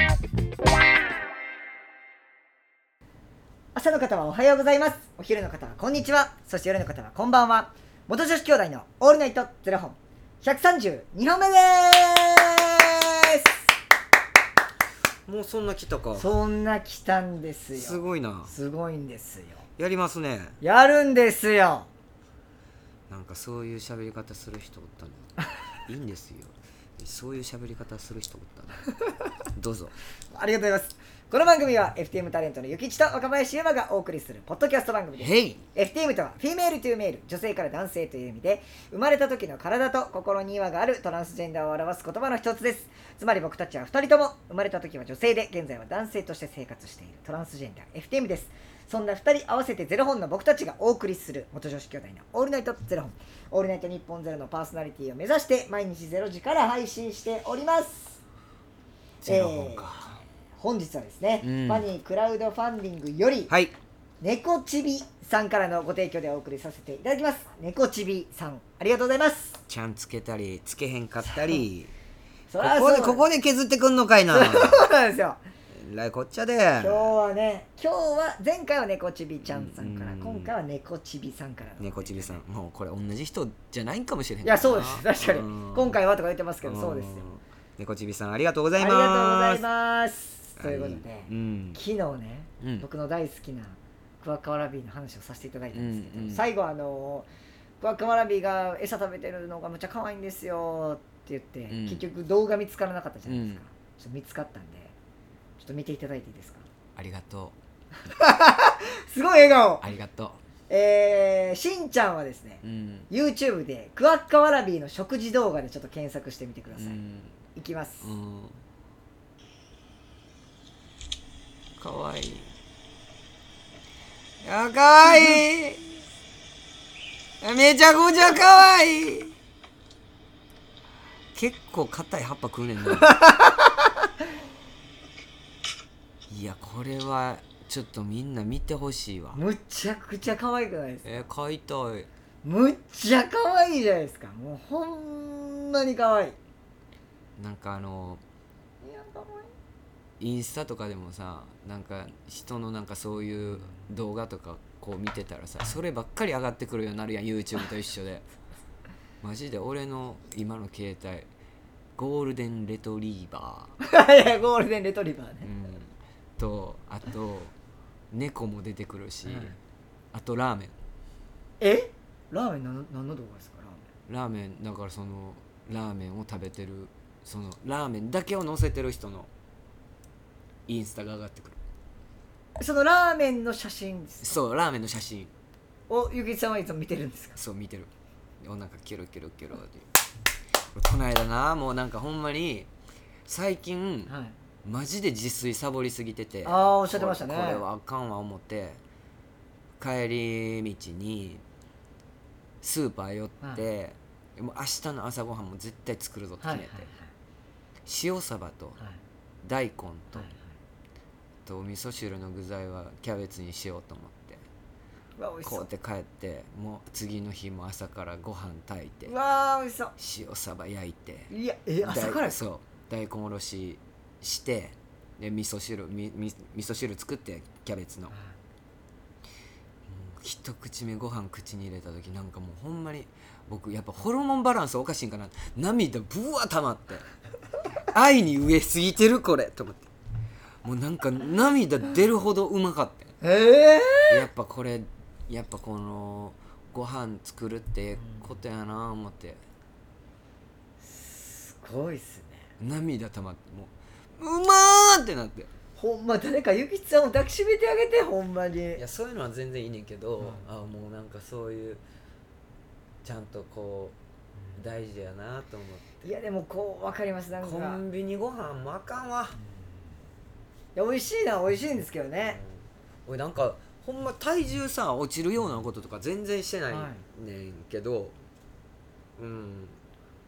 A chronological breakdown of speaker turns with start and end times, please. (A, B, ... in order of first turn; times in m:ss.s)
0:03.7-0:13.6 A
0:15.3-0:16.3 B
0:16.2-0:19.6 A
0:17.7-0:18.5 B
0:19.8-0:20.6 B
0:20.6-0:21.9 A
0:23.1-0:28.8 B
0:29.5-0:29.9 B
0:30.3-0:58.2 A
0:35.2-0:35.6 B
0:59.2-1:00.2 B
0:59.2-0:59.9 A
1:00.6-1:03.5 A
1:01.4-1:01.9 B
1:03.5-1:03.7 B
1:04.2-1:09.6 A
1:09.7-1:11.9 B
1:11.2-1:11.6 A
1:12.5-1:13.3 A
1:12.6-1:14.8 B
1:14.3-1:15.4 A
1:15.7-1:17.1 B
1:16.8-1:22.4 A
1:19.4-1:20.5 B
1:21.8-1:26.0 B
1:24.4-1:27.3 A
1:26.6-1:29.6 B
1:28.8-1:37.3 A
1:30.6-1:31.8 B
1:32.6-1:32.8 B
1:35.7-1:36.4 B
1:37.8-1:44.9 A
1:41.7-1:42.0 B
1:43.2-1:43.6 B
1:45.6-1:46.6 A
1:47.0-1:47.6 B
1:48.1-1:49.8 A
1:49.8-1:50.4 B
1:50.7-1:57.0 A
1:52.6-1:53.1 B
1:56.7-1:57.3 B
1:57.5-1:58.1 A
1:58.0-1:58.6 B
2:01.8-2:02.5 B
2:04.4-2:05.9 B
2:07.4-2:09.3 B
2:11.3-2:13.1 B
2:13.0-2:13.7 A
2:16.3-2:19.4 B
2:19.3-2:21.3 A
2:21.0-2:22.1 B
2:22.4-2:26.4 A
2:27.4-2:28.2 B
2:28.8-2:29.5 A
2:30.2-2:38.2 B
2:39.2-2:41.3 B
2:42.0-2:43.7 B
2:43.8-2:45.5 A
2:45.4-2:47.5 B
2:48.1-2:49.5 B
2:49.2-2:49.6 A
2:50.1-2:50.7 B
2:51.6-2:53.8 A
2:54.1-2:59.3 B
3:00.7-3:01.6 B
3:02.6-3:04.4 A
3:04.2-3:05.3 B
3:05.9-3:07.4 A
3:07.4-3:07.9 B
3:08.4-3:09.9 B
3:10.7-3:12.7 B
3:13.2-3:14.1 B
3:14.1-3:14.4 A
3:14.6-3:18.8 B
3:16.4-3:17.6 A
3:19.8-3:21.4 B
3:22.6-3:26.9 B
3:26.4-3:27.1 A
3:27.8-3:28.8 B
3:29.4-3:30.3 B
3:30.1-3:30.5 A
3:31.4-3:34.4 B
3:35.2-3:35.7 A
3:35.4-3:39.1 B
3:39.0-3:39.9 A
3:40.0-3:41.3 B
3:41.3-3:42.4 A
3:41.8-3:48.1 B
3:48.1-3:48.4 A
3:49.9-3:57.0 B
3:57.9-3:59.9 B
4:00.6-4:03.1 B
4:03.2-4:04.3 A
4:04.1-4:09.4 B
4:08.0-4:08.2 A
4:10.8-4:12.5 A
4:12.6-4:15.5 B
4:15.8-4:18.8 A
4:18.7-4:21.8 B
4:23.0-4:24.0 B
4:24.5-4:26.1 B
4:26.0-4:27.8 A
4:27.4-4:29.4 B
4:30.7-4:32.4 A
4:32.2-4:38.2 B
4:36.7-4:37.0 A
4:39.2-4:39.8 B